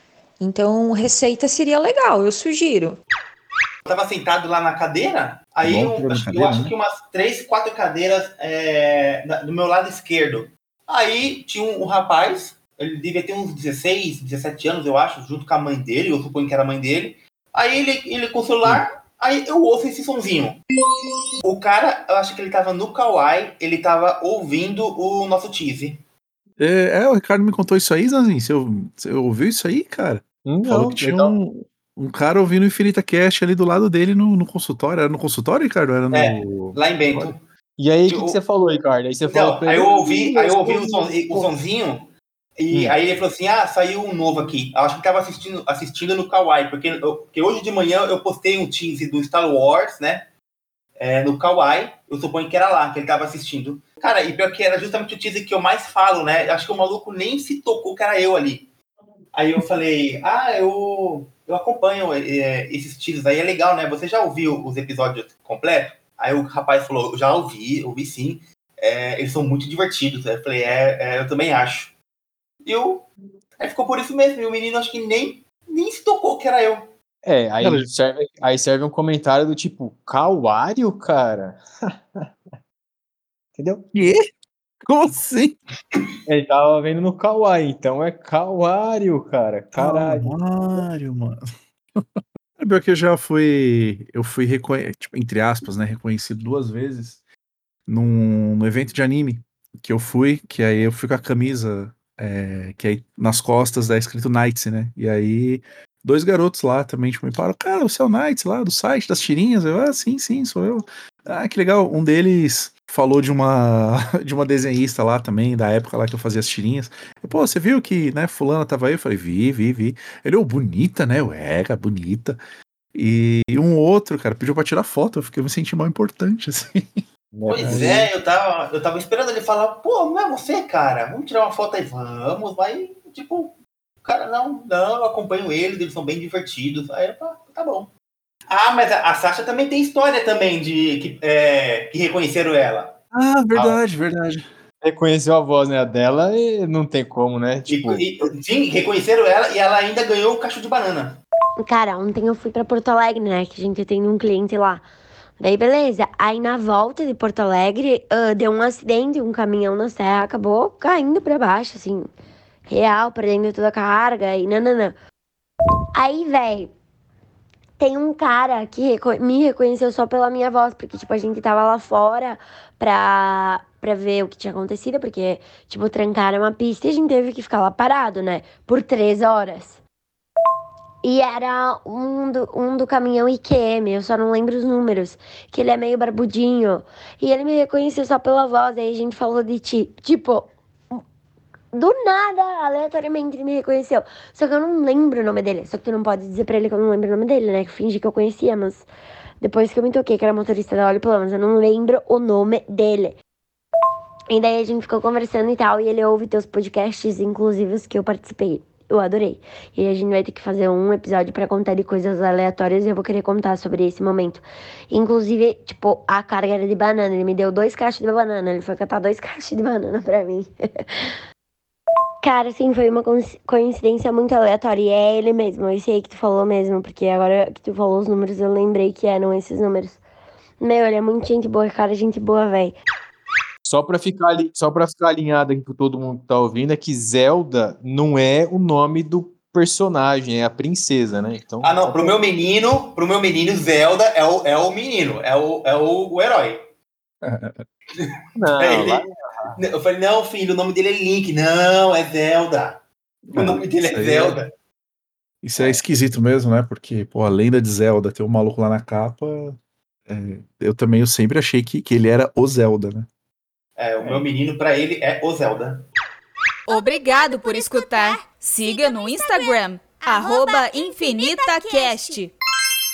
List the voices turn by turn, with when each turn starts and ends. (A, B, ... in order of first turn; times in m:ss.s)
0:00.4-0:03.0 A
0:03.8-0:20.6 B
0:05.6-0:06.7 C
0:21.4-0:26.0 B
0:26.6-0:37.3 C
0:30.4-0:31.3 D
0:36.1-0:37.4 B
0:37.8-0:41.4 D
0:38.1-0:38.4 B
0:39.3-0:50.3 B
0:51.0-0:58.7 B
0:59.3-1:11.9 B
1:12.6-1:13.1 B
1:13.6-1:16.9 B
1:17.2-1:22.3 D
1:17.6-1:17.9 C
1:23.6-1:23.9 D
1:23.9-1:24.2 C
1:24.8-1:25.6 C
1:26.3-1:30.4 D
1:29.7-1:31.4 C
1:32.6-1:37.2 C
1:37.9-2:02.4 C
2:02.9-2:07.0 C
2:07.3-2:08.1 D
2:07.5-2:17.9 B
2:07.6-2:08.0 C
2:18.5-2:23.0 B
2:23.1-2:24.4 C
2:24.8-2:28.0 D
2:27.7-2:31.2 B
2:31.6-2:34.9 E
2:35.4-2:42.1 E
2:42.7-2:45.0 E
2:45.9-2:46.7 E
2:47.8-2:59.8 E
3:01.0-3:11.0 E
3:11.7-3:18.9 E
3:19.4-3:23.2 E
3:24.3-3:40.8 E
3:42.2-3:50.0 E
3:50.6-3:52.8 E
3:53.6-4:02.2 D
4:01.6-4:06.6 B
4:07.2-4:07.6 C
4:08.0-4:09.0 B
4:08.4-4:09.6 D
4:09.6-4:12.8 B
4:13.3-4:14.4 C
4:13.3-4:14.5 B
4:15.4-4:19.6 C
4:20.1-4:23.1 C
4:23.8-4:25.8 B
4:26.7-4:32.3 F